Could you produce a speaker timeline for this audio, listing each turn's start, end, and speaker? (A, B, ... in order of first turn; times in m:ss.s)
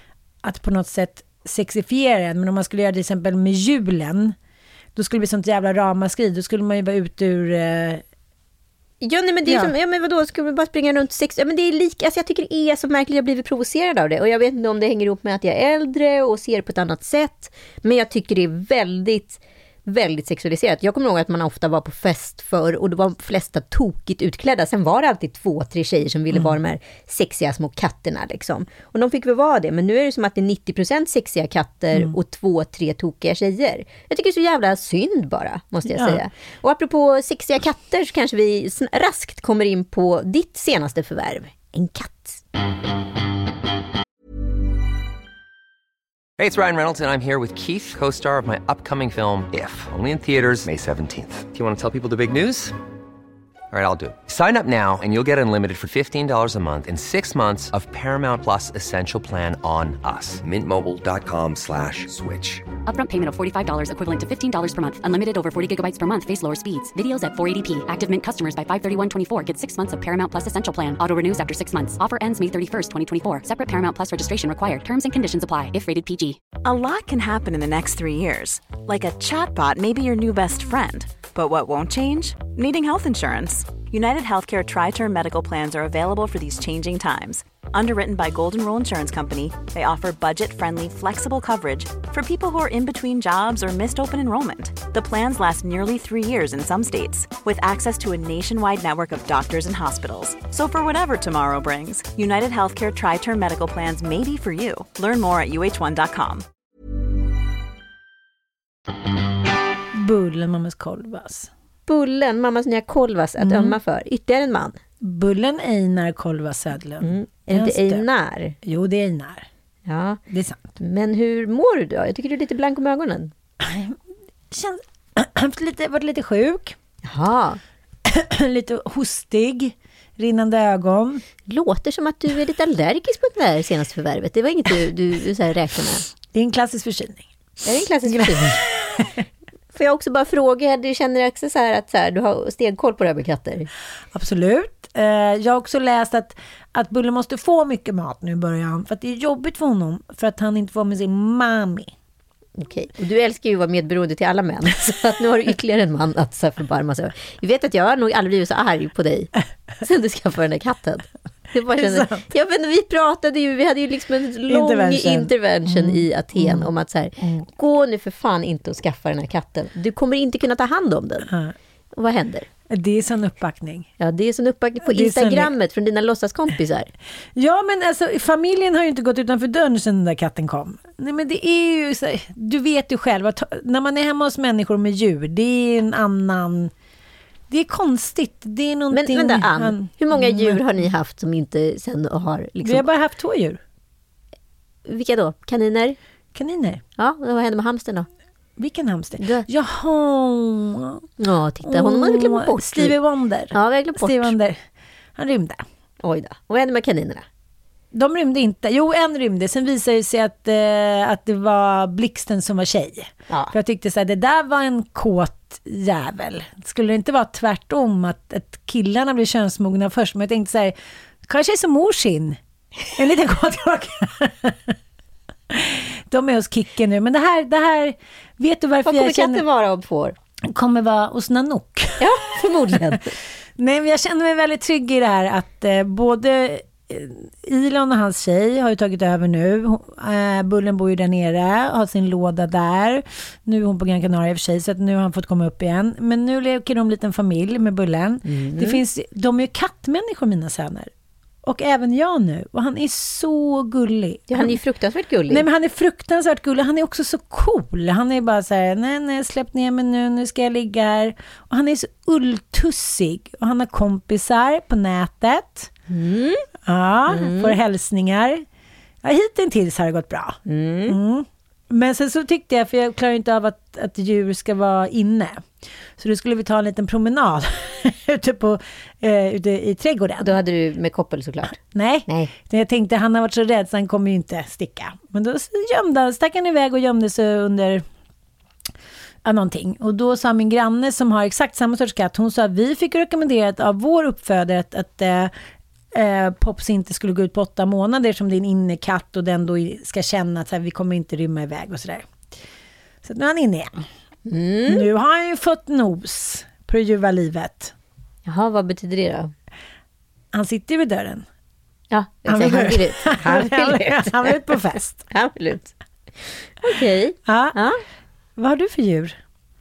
0:00.4-0:04.4 A
0:05.0-0:08.0 A
0:09.0-0:42.4 B
0:09.5-0:09.7 A
0:35.9-0:36.2 A
0:46.4-0:52.8 C
0:53.7-1:02.7 C
1:02.9-1:16.4 D
1:16.6-1:46.4 E
1:49.9-1:51.5 A
1:51.9-1:54.8 B
1:53.4-1:53.8 A
1:55.0-1:58.1 A
1:57.0-1:58.6 B
1:58.6-1:59.5 A
1:59.8-2:00.2 B
2:00.3-2:00.6 A
2:00.8-2:03.3 B
2:03.6-2:04.0 A
2:04.5-2:06.8 A
2:07.0-2:07.6 B
2:08.1-2:11.2 A
2:11.5-2:16.1 B
2:16.3-2:17.3 A
2:17.6-2:18.6 B
2:18.1-2:19.2 A
2:19.7-2:23.7 B
2:24.1-2:31.9 A
2:32.6-2:51.3 B
2:41.7-2:42.2 A
2:44.5-2:46.7 A
2:47.2-2:47.5 A
2:51.3-2:51.6 A
2:51.9-2:52.5 B
2:52.7-2:53.9 A
2:54.0-2:56.9 B
2:54.9-2:55.5 A
2:57.4-3:06.7 A
3:07.5-3:10.6 A
3:08.9-3:12.9 B
3:12.6-3:13.6 A
3:14.9-3:16.0 B
3:16.4-3:16.8 A
3:17.0-3:18.1 B
3:18.6-3:21.1 A
3:19.2-3:19.5 B
3:21.2-3:23.0 B
3:21.6-3:24.6 A
3:23.5-3:24.4 B
3:25.2-3:25.6 A
3:26.0-3:27.2 B
3:27.9-3:40.7 A
3:41.3-3:42.4 A
3:42.9-3:44.8 A
3:45.5-3:49.4 A
3:48.8-3:50.2 B
3:50.4-3:52.1 A
3:52.0-3:53.1 B
3:53.6-4:10.9 A
4:08.2-4:08.8 B
4:11.4-4:14.6 A
4:14.3-4:15.5 B
4:15.3-4:25.7 A
4:25.9-4:26.5 B
4:26.7-4:28.4 A
4:27.1-4:27.6 B
4:29.0-4:35.5 A
4:30.5-4:31.0 B
4:36.0-4:40.3 A
4:40.2-4:42.3 B
4:41.7-4:47.8 A
4:49.2-4:55.3 A
4:55.9-5:02.2 A
5:03.0-5:03.8 A
5:04.3-5:04.9 B
5:04.7-5:07.7 A
5:08.2-5:09.3 B
5:10.3-5:11.2 A
5:11.9-5:17.8 B
5:12.3-5:15.0 A
5:17.3-5:17.6 A
5:18.4-5:19.2 A